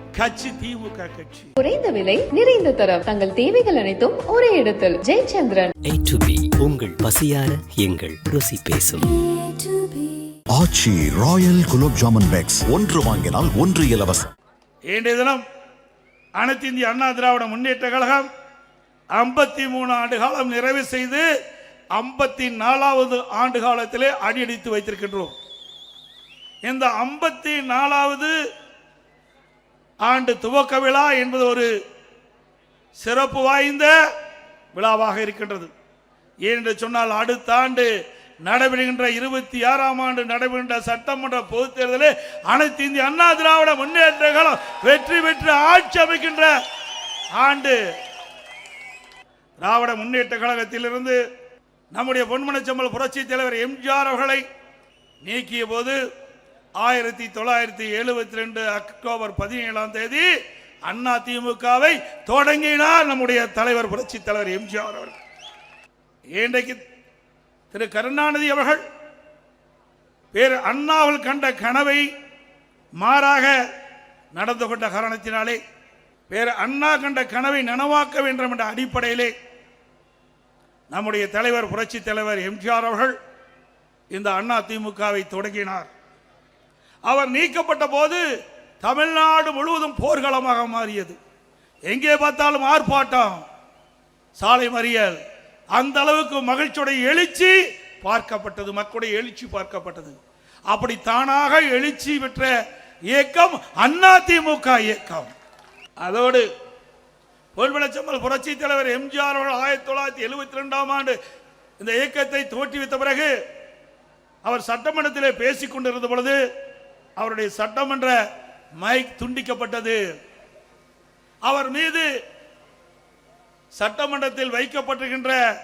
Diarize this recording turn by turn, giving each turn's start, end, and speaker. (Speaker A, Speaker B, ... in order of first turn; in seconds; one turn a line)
Speaker A: 0.1-1.5
Speaker B: 1.6-5.7
Speaker C: 5.9-9.1
Speaker B: 9.0-10.4
Speaker D: 10.5-14.2
Speaker A: 14.9-15.4
Speaker A: 16.4-18.3
Speaker A: 19.1-21.2
Speaker A: 21.9-25.3
Speaker A: 26.6-28.3
Speaker A: 30.0-31.7
Speaker A: 33.0-33.9
Speaker A: 34.7-35.7
Speaker A: 36.5-37.9
Speaker A: 38.5-46.5
Speaker A: 47.4-47.8
Speaker A: 49.6-51.2
Speaker A: 51.9-54.4
Speaker A: 55.2-56.0
Speaker A: 56.8-60.3
Speaker A: 60.9-65.1
Speaker A: 66.3-66.8
Speaker A: 67.7-68.8
Speaker A: 70.3-72.1
Speaker A: 73.0-73.6
Speaker A: 74.3-75.6
Speaker A: 76.3-79.3
Speaker A: 80.9-83.1
Speaker A: 84.1-85.9
Speaker A: 87.1-88.2
Speaker A: 88.8-91.2
Speaker A: 91.9-93.4
Speaker A: 94.4-95.2
Speaker A: 95.7-100.1
Speaker A: 100.7-102.5
Speaker A: 103.1-105.3
Speaker A: 106.0-106.4
Speaker A: 107.5-111.2
Speaker A: 111.8-113.3
Speaker A: 114.4-116.4
Speaker A: 117.2-118.2
Speaker A: 118.8-120.0
Speaker A: 121.5-122.1
Speaker A: 123.8-125.4